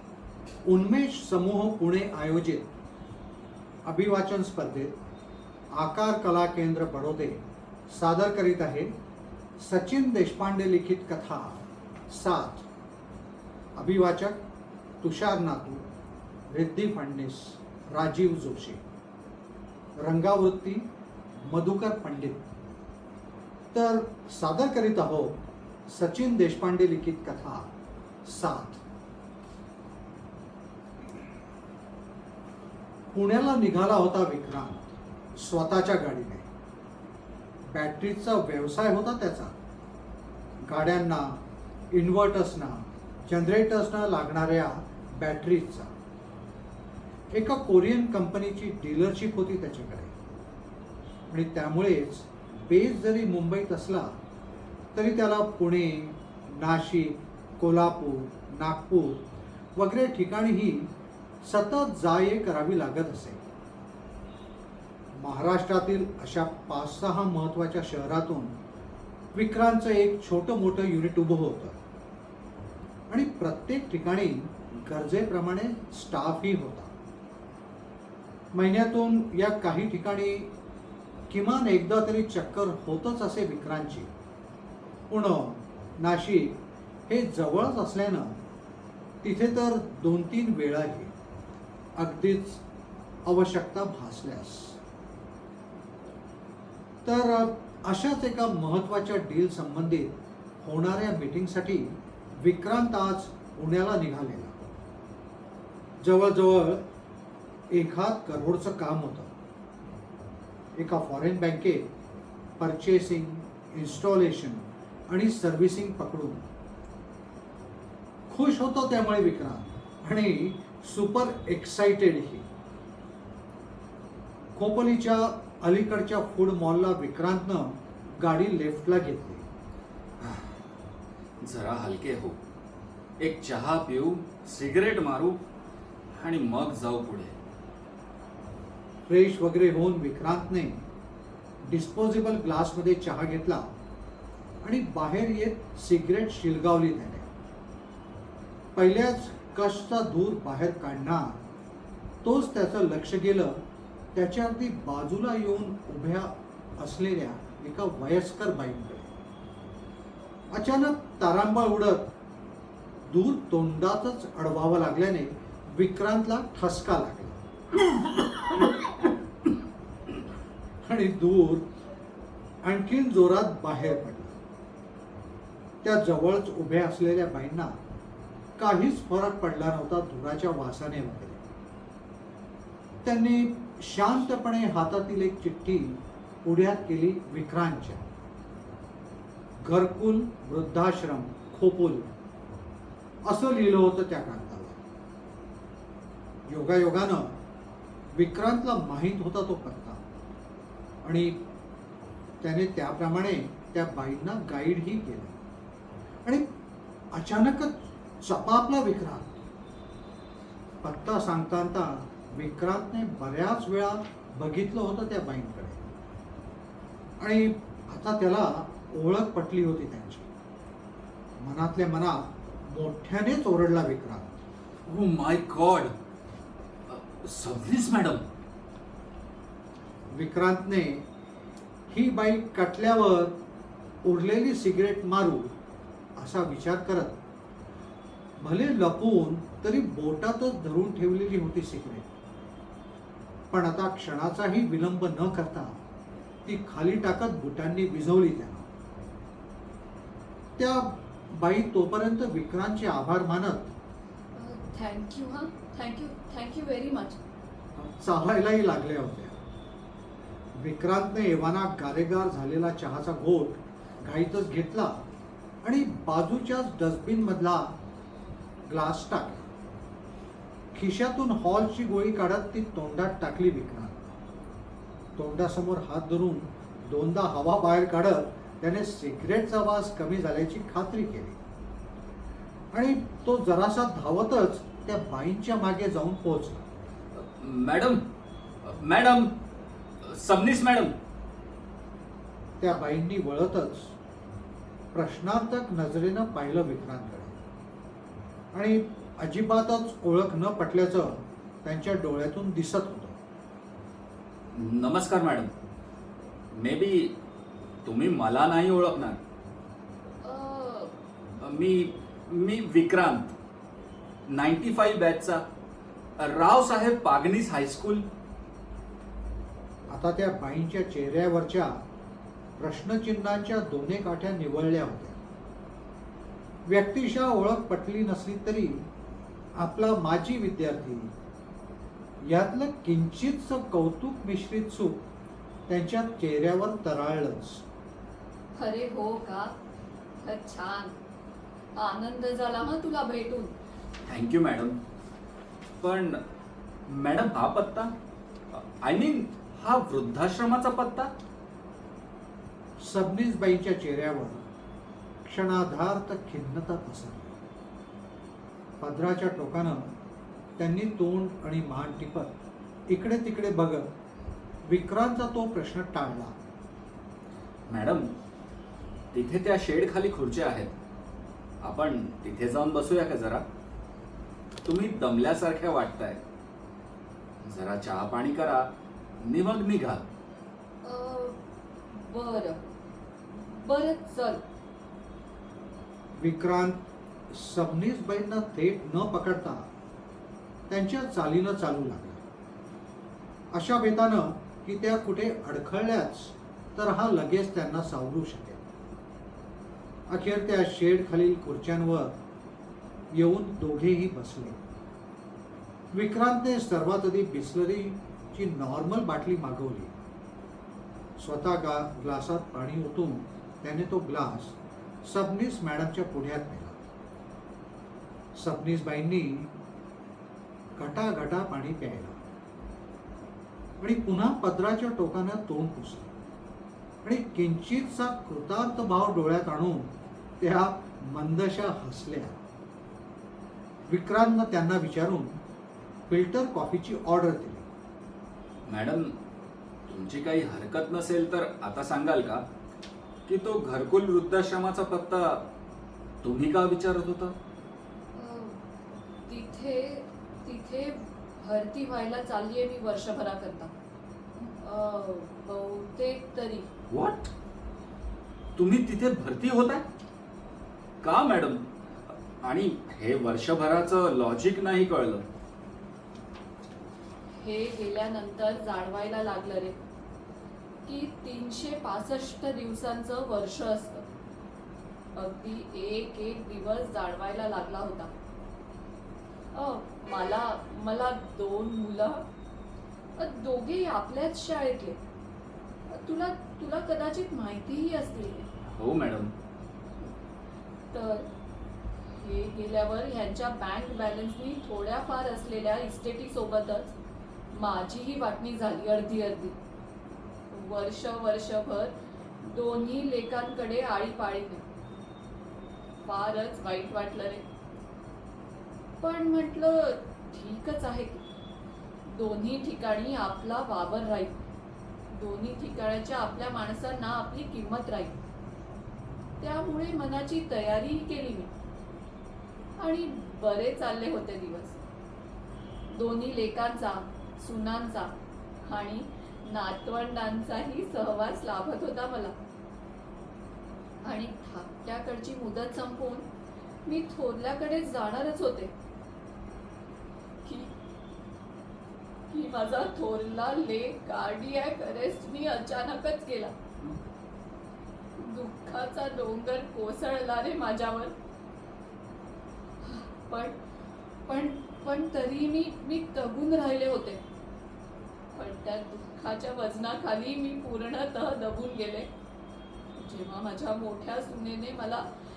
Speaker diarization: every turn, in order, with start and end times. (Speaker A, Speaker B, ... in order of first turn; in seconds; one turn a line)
Speaker A: 0.7-2.7
Speaker A: 3.9-4.9
Speaker A: 5.7-8.9
Speaker A: 9.6-12.7
Speaker A: 13.8-14.4
Speaker A: 15.0-15.8
Speaker A: 16.5-18.8
Speaker A: 20.0-20.9
Speaker A: 21.5-22.5
Speaker A: 23.7-27.7
Speaker A: 28.2-28.8
Speaker A: 33.1-36.5
Speaker A: 37.7-39.6
Speaker A: 40.6-41.4
Speaker A: 41.9-45.9
Speaker A: 47.3-50.2
Speaker A: 51.3-54.1
Speaker A: 55.0-59.2
Speaker A: 59.8-60.9
Speaker A: 61.4-63.4
Speaker A: 65.2-68.6
Speaker A: 69.3-71.8
Speaker A: 73.1-76.9
Speaker A: 78.5-80.5
Speaker A: 81.3-84.1
Speaker A: 85.1-88.4
Speaker A: 89.2-91.1
Speaker A: 92.0-92.6
Speaker A: 93.3-94.8
Speaker A: 97.0-104.7
Speaker A: 106.0-106.8
Speaker A: 107.7-109.3
Speaker A: 110.8-111.9
Speaker A: 112.6-116.5
Speaker A: 118.3-122.5
Speaker A: 124.5-129.5
Speaker B: 130.2-130.5
Speaker B: 131.4-132.4
Speaker B: 133.2-135.4
Speaker B: 136.1-137.4
Speaker A: 139.1-140.8
Speaker A: 141.6-143.7
Speaker A: 144.6-147.3
Speaker A: 148.8-151.4
Speaker A: 152.2-153.6
Speaker A: 154.1-159.1
Speaker A: 160.5-162.1
Speaker A: 163.1-167.4
Speaker A: 170.8-171.7
Speaker A: 172.6-174.4
Speaker A: 175.8-177.8
Speaker A: 178.6-181.4
Speaker A: 183.0-188.1
Speaker A: 189.6-192.1
Speaker A: 193.2-194.8
Speaker A: 196.5-197.4
Speaker A: 198.1-200.0
Speaker A: 201.0-201.4
Speaker A: 202.4-205.4
Speaker A: 207.1-209.4
Speaker A: 210.8-215.9
Speaker A: 217.2-220.3
Speaker A: 221.4-224.4
Speaker B: 224.9-225.9
Speaker B: 226.9-228.2
Speaker A: 230.1-231.1
Speaker A: 231.9-233.4
Speaker A: 234.0-235.5
Speaker A: 236.2-237.2
Speaker A: 238.4-242.1
Speaker A: 243.5-245.8
Speaker A: 246.4-248.7
Speaker A: 250.6-253.7
Speaker C: 254.3-257.2
Speaker A: 257.8-259.4
Speaker A: 260.6-265.0
Speaker A: 265.6-267.7
Speaker A: 268.7-269.5
Speaker A: 270.8-274.2
Speaker A: 275.2-281.4
Speaker A: 282.7-286.7
Speaker B: 287.1-288.0
Speaker B: 288.6-289.3
Speaker B: 290.1-290.9
Speaker A: 292.6-293.9
Speaker A: 294.9-297.4
Speaker A: 298.5-303.2
Speaker B: 304.5-305.5
Speaker B: 306.5-307.1
Speaker B: 307.9-309.2
Speaker C: 310.2-310.9
Speaker B: 311.4-313.3
Speaker B: 314.3-315.4
Speaker B: 316.2-318.0
Speaker A: 319.9-321.7
Speaker A: 322.6-325.2
Speaker A: 326.7-328.9
Speaker A: 329.6-331.1
Speaker A: 332.2-335.0
Speaker A: 335.7-337.6
Speaker C: 338.6-339.5
Speaker C: 340.2-341.0
Speaker C: 341.8-343.5
Speaker B: 344.1-344.8
Speaker B: 345.8-346.2
Speaker B: 346.9-347.9
Speaker B: 348.5-351.1
Speaker A: 352.8-354.4
Speaker A: 355.2-357.3
Speaker A: 358.8-359.9
Speaker A: 360.6-362.4
Speaker A: 362.9-363.9
Speaker A: 364.7-366.3
Speaker B: 367.7-368.1
Speaker B: 369.1-370.7
Speaker B: 371.6-373.4
Speaker B: 374.6-376.2
Speaker B: 377.4-378.7
Speaker B: 379.2-380.1
Speaker C: 380.8-382.7
Speaker C: 383.3-384.4
Speaker A: 386.2-386.8
Speaker A: 387.3-389.7
Speaker A: 390.7-392.2
Speaker A: 393.5-398.6
Speaker A: 400.1-402.1
Speaker A: 403.1-404.6
Speaker A: 405.9-409.9
Speaker A: 411.2-416.8
Speaker A: 418.4-419.5
Speaker A: 420.8-422.2
Speaker A: 423.8-426.1
Speaker A: 427.0-432.4
Speaker A: 433.9-435.4
Speaker A: 436.1-437.7
Speaker B: 438.7-439.1
Speaker B: 439.9-442.4
Speaker B: 443.3-445.4
Speaker B: 446.2-447.4
Speaker C: 448.1-448.6
Speaker C: 449.3-453.7
Speaker C: 454.6-456.7
Speaker B: 456.9-457.3
Speaker B: 458.6-459.8
Speaker B: 461.0-461.6
Speaker B: 462.4-465.2
Speaker C: 467.4-469.8
Speaker C: 470.9-474.1
Speaker C: 475.1-478.1
Speaker C: 479.5-482.2
Speaker C: 483.2-485.0
Speaker C: 485.9-488.5
Speaker B: 488.7-489.3
Speaker C: 490.9-491.3
Speaker C: 492.2-497.0
Speaker C: 497.5-499.6
Speaker C: 500.5-504.6
Speaker C: 506.0-507.4
Speaker C: 509.0-511.3
Speaker C: 512.1-514.4
Speaker C: 515.1-518.2
Speaker C: 519.4-521.5
Speaker C: 522.8-524.8
Speaker C: 525.9-532.4
Speaker C: 534.0-536.3
Speaker C: 536.9-538.7
Speaker C: 540.4-540.7
Speaker C: 542.3-546.5
Speaker C: 548.2-551.1
Speaker C: 552.8-553.6
Speaker C: 554.3-557.2
Speaker C: 558.3-562.1
Speaker C: 563.0-565.1